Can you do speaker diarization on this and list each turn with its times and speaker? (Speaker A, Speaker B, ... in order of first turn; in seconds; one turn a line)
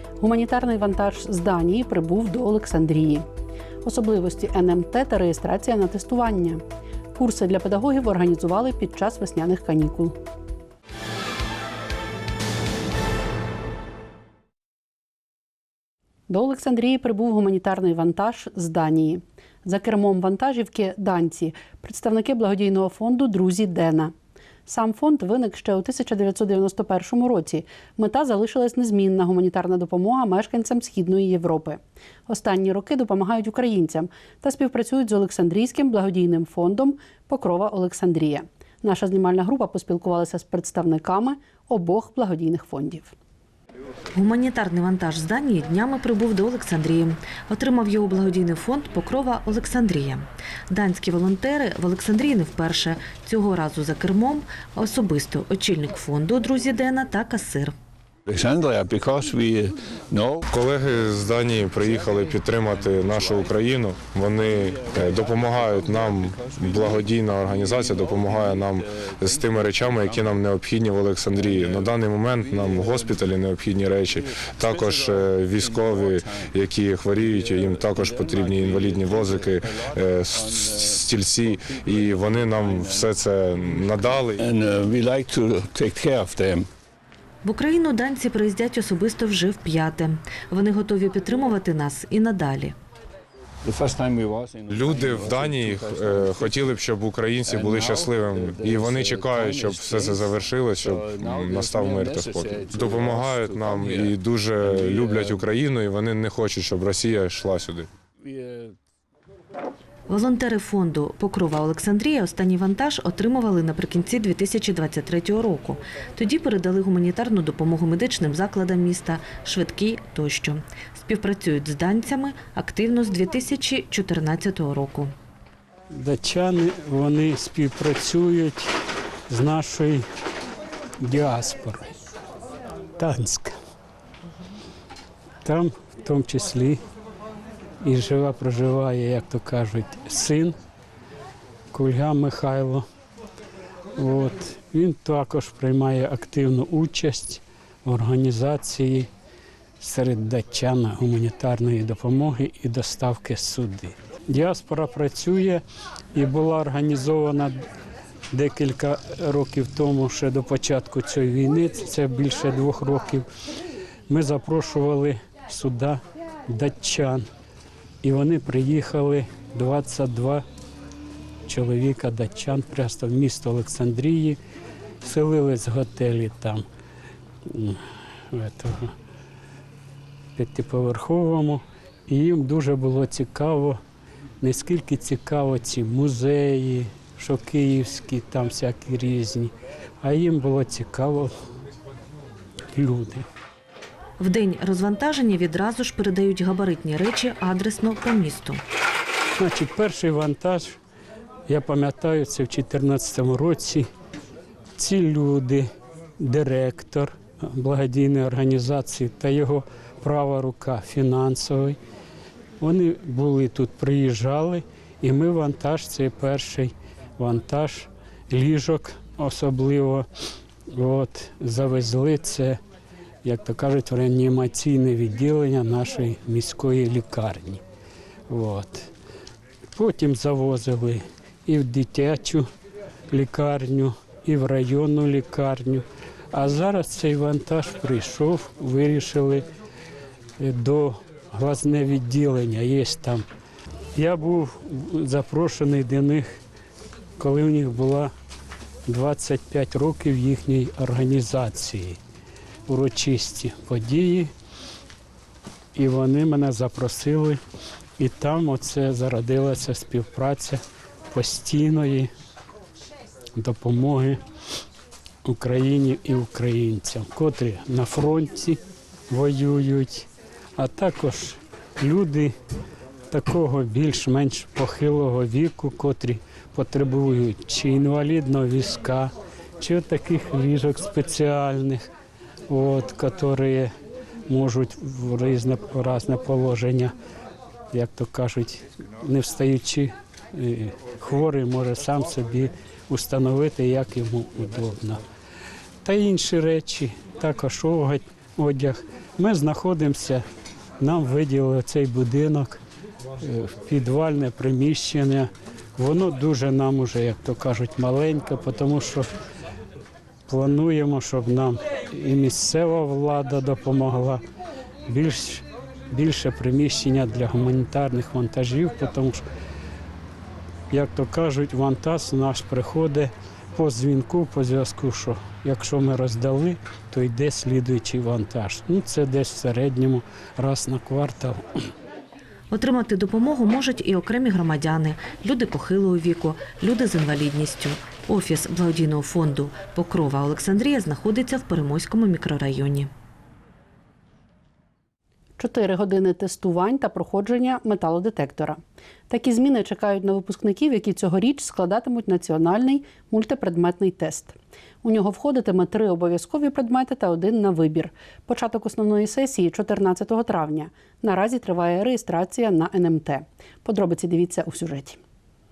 Speaker A: 0.2-3.3
Speaker A: 3.8-6.6
Speaker A: 7.2-10.2
Speaker A: 16.3-24.1
Speaker A: 24.7-43.1
Speaker B: 44.1-57.7
Speaker C: 58.3-63.8
Speaker D: 60.5-84.5
Speaker C: 64.3-73.3
Speaker C: 74.1-86.7
Speaker B: 87.4-92.8
Speaker C: 93.6-96.8
Speaker D: 94.7-107.9
Speaker C: 97.4-105.5
Speaker C: 108.2-108.8
Speaker B: 110.1-125.1
Speaker E: 125.9-128.7
Speaker E: 129.3-130.0
Speaker E: 131.0-131.9
Speaker E: 133.0-133.5
Speaker E: 135.4-136.8
Speaker E: 137.8-140.6
Speaker E: 141.7-142.8
Speaker E: 144.0-149.1
Speaker E: 149.8-155.6
Speaker E: 156.1-157.6
Speaker E: 158.3-163.3
Speaker E: 164.1-167.3
Speaker E: 168.0-170.4
Speaker E: 171.5-174.4
Speaker E: 175.0-176.6
Speaker E: 177.5-177.8
Speaker E: 178.3-178.9
Speaker E: 180.4-183.8
Speaker E: 184.4-191.3
Speaker E: 192.7-193.2
Speaker B: 194.2-198.6
Speaker E: 199.4-200.7
Speaker E: 201.5-203.9
Speaker E: 204.8-205.7
Speaker E: 206.2-211.8
Speaker E: 212.6-220.1
Speaker E: 220.7-222.6
Speaker E: 223.2-227.6
Speaker E: 228.3-228.9
Speaker E: 229.7-232.5
Speaker E: 233.1-239.4
Speaker E: 240.4-243.2
Speaker E: 244.0-246.3
Speaker E: 247.2-248.1
Speaker E: 248.9-252.0
Speaker E: 252.7-254.3
Speaker E: 255.8-257.4
Speaker E: 258.0-260.6
Speaker E: 261.1-262.1
Speaker E: 263.4-264.2
Speaker E: 265.2-268.6
Speaker E: 269.1-272.3
Speaker E: 273.1-281.9
Speaker E: 282.5-283.7
Speaker E: 284.3-286.9
Speaker E: 287.7-295.0
Speaker E: 295.8-300.2
Speaker E: 300.8-302.6
Speaker E: 303.2-309.1
Speaker E: 310.3-314.2
Speaker E: 314.9-319.2
Speaker E: 320.7-331.4
Speaker B: 332.5-342.9
Speaker A: 345.4-365.0